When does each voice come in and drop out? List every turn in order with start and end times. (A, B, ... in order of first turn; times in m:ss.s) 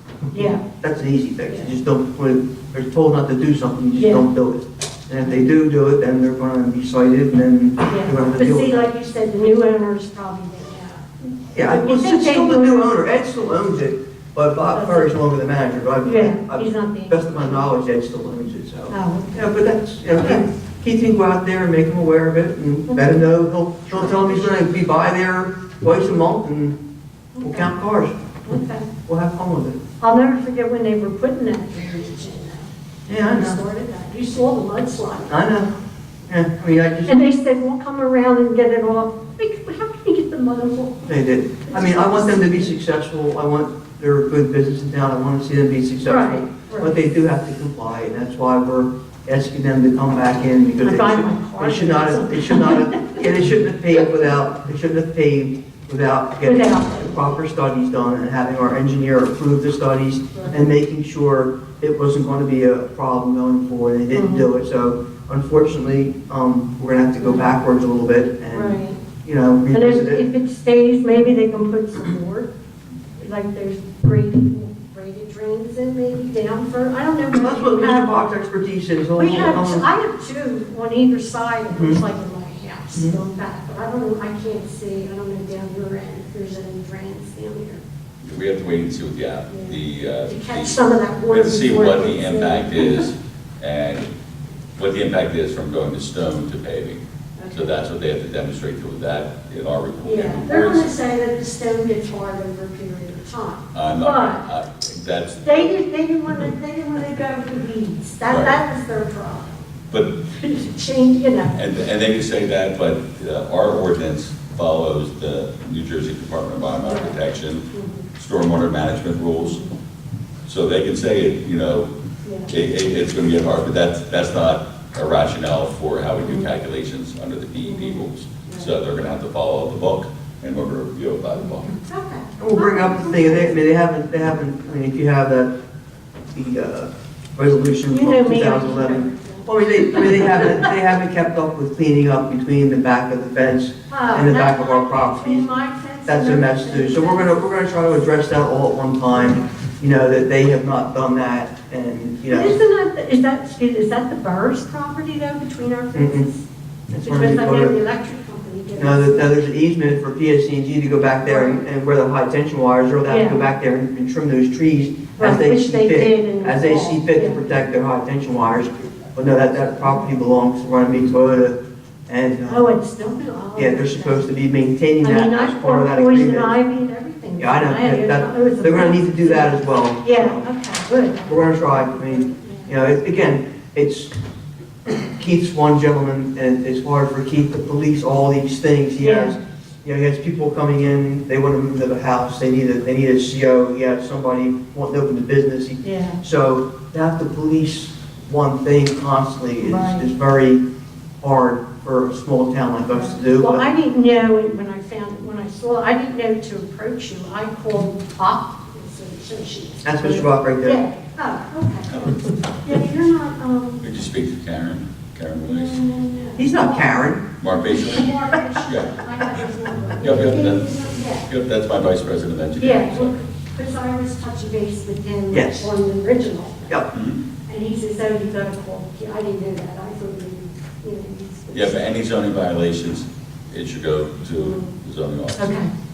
0:00.3-0:00.6 A
0:00.3-0:08.9 B
0:03.9-0:04.3 A
0:07.9-0:12.9 A
0:11.5-0:26.8 B
0:14.7-0:15.1 A
0:16.0-0:17.7 A
0:18.9-0:19.5 A
0:20.2-0:20.5 A
0:22.9-0:23.2 A
0:23.9-0:24.5 A
0:27.4-0:27.7 A
0:27.4-0:28.2 B
0:28.5-0:28.9 A
0:29.1-0:29.8 B
0:30.0-0:32.7 A
0:33.1-0:33.6 B
0:33.2-0:35.3 A
0:35.3-0:35.7 B
0:36.3-0:37.2 B
0:37.0-0:41.1 A
0:41.1-1:10.2 B
0:41.6-0:42.7 A
0:46.0-0:47.0 A
0:50.8-0:53.2 A
0:56.4-0:57.1 A
1:04.1-1:04.5 A
1:07.2-1:07.5 A
1:08.5-1:09.0 A
1:09.7-1:12.5 A
1:13.2-1:18.2 A
1:17.3-1:19.8 B
1:19.2-1:27.8 A
1:21.7-1:22.0 B
1:28.2-1:34.1 C
1:29.5-1:33.1 A
1:34.8-1:40.9 C
1:37.4-1:37.8 A
1:40.0-1:44.5 A
1:43.7-1:45.8 C
1:45.4-1:49.7 A
1:48.3-1:48.6 C
1:50.2-1:51.6 A
1:51.5-1:59.6 C
1:56.8-1:57.2 A
1:57.7-1:58.1 A
1:59.4-1:59.7 A
2:00.5-2:01.9 C
2:02.2-2:02.5 A
2:02.5-2:11.7 C
2:07.6-2:08.7 A
2:11.8-2:13.5 A
2:12.4-2:15.5 B
2:16.3-2:25.5 B
2:17.9-2:20.7 A
2:23.9-2:27.5 A
2:26.1-2:32.6 B
2:29.1-2:29.5 A
2:32.3-2:36.4 A
2:35.9-2:36.3 B
2:36.9-2:37.8 B
2:37.0-2:39.4 A
2:38.8-2:51.6 B
2:41.2-2:41.6 A
2:43.0-2:43.4 A
2:45.2-2:47.4 A
2:52.1-2:52.8 B
2:52.5-2:54.3 A
2:53.6-2:56.5 B
2:55.0-3:02.7 A
2:57.4-3:00.5 B
3:01.3-3:04.1 B
3:05.0-3:20.6 B
3:09.0-3:09.4 A
3:15.8-3:16.2 A
3:19.6-3:20.1 A
3:21.2-3:23.7 B
3:22.9-3:33.9 A
3:29.8-3:30.8 B
3:31.9-3:32.2 C
3:33.8-3:35.8 C
3:35.4-3:41.3 A
3:36.4-3:37.2 B
3:37.4-3:39.1 C
3:40.0-3:43.2 C
3:42.6-3:46.8 A
3:45.3-3:45.7 B
3:46.9-3:47.2 C
3:47.5-3:51.8 A
3:51.5-3:55.6 C
3:54.4-3:54.7 A
3:55.4-3:55.7 A